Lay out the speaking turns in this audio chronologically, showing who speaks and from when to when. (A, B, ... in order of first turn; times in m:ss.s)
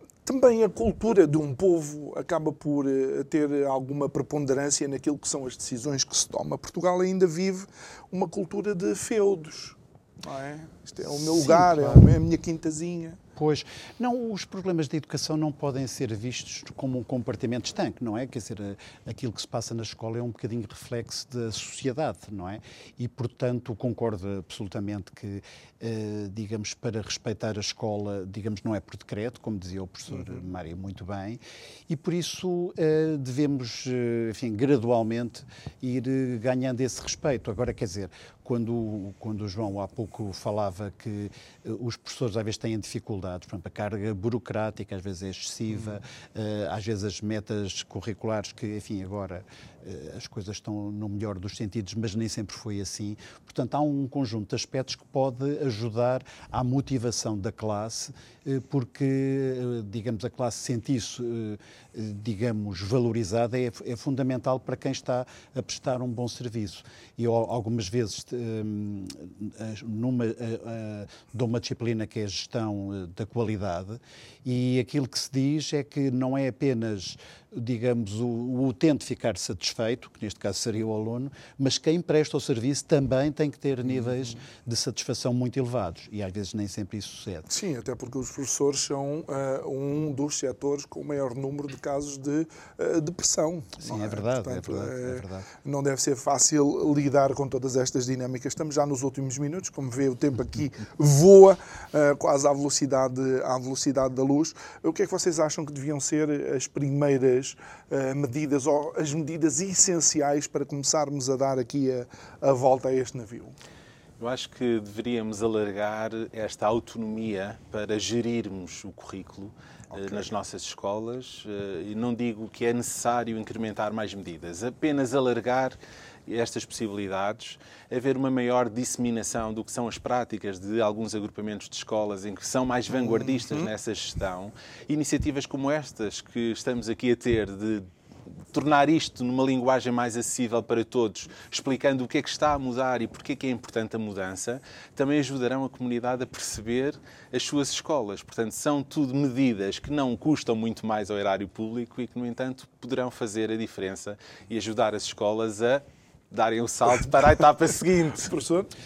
0:00.2-0:13.2 A
0:11.1-0:12.1 B
0:13.4-1:27.5 B
0:30.1-0:30.4 A
1:23.9-1:24.4 A
1:27.5-1:53.6 A
1:33.8-1:35.5 B
1:54.2-2:17.9 C
1:59.9-2:00.3 A
2:12.9-2:13.7 A
2:18.5-2:38.3 C
2:38.2-2:38.7 A